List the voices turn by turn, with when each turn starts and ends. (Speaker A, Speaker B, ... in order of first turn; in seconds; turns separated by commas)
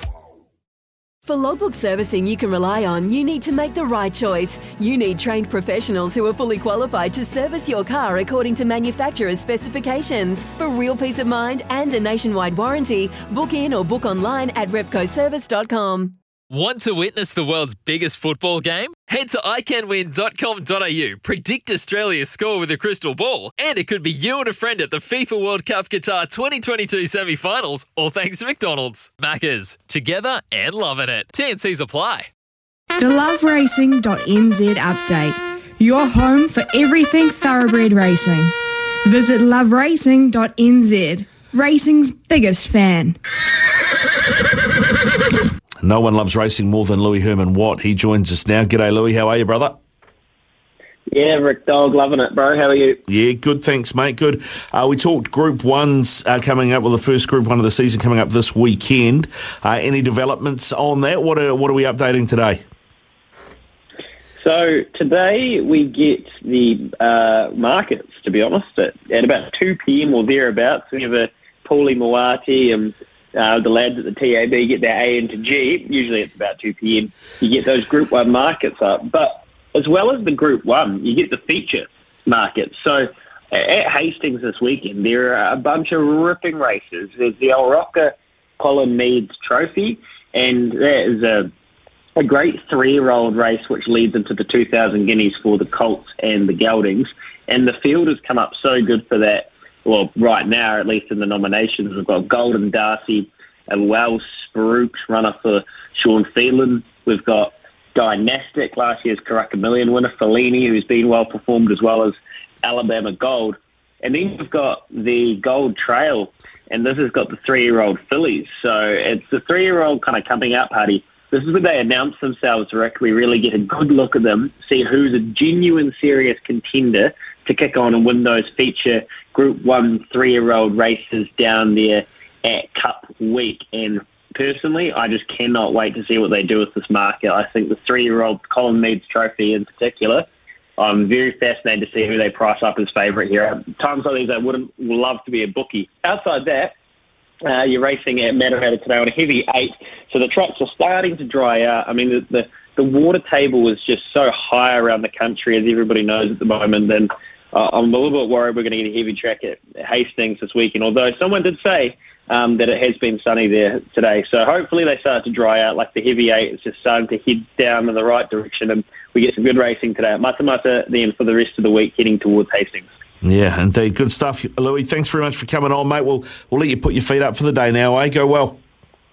Speaker A: 1.2-16.1, Speaker B: 16.5-32.3, Speaker C: 33.0-38.5, Speaker C: 39.0-43.1, Speaker D: 45.8-49.8, Speaker E: 51.1-53.0, Speaker D: 53.1-62.6, Speaker E: 64.4-91.5, Speaker E: 92.2-140.3, Speaker E: 140.8-146.7, Speaker E: 147.4-172.9, Speaker D: 173.2-178.6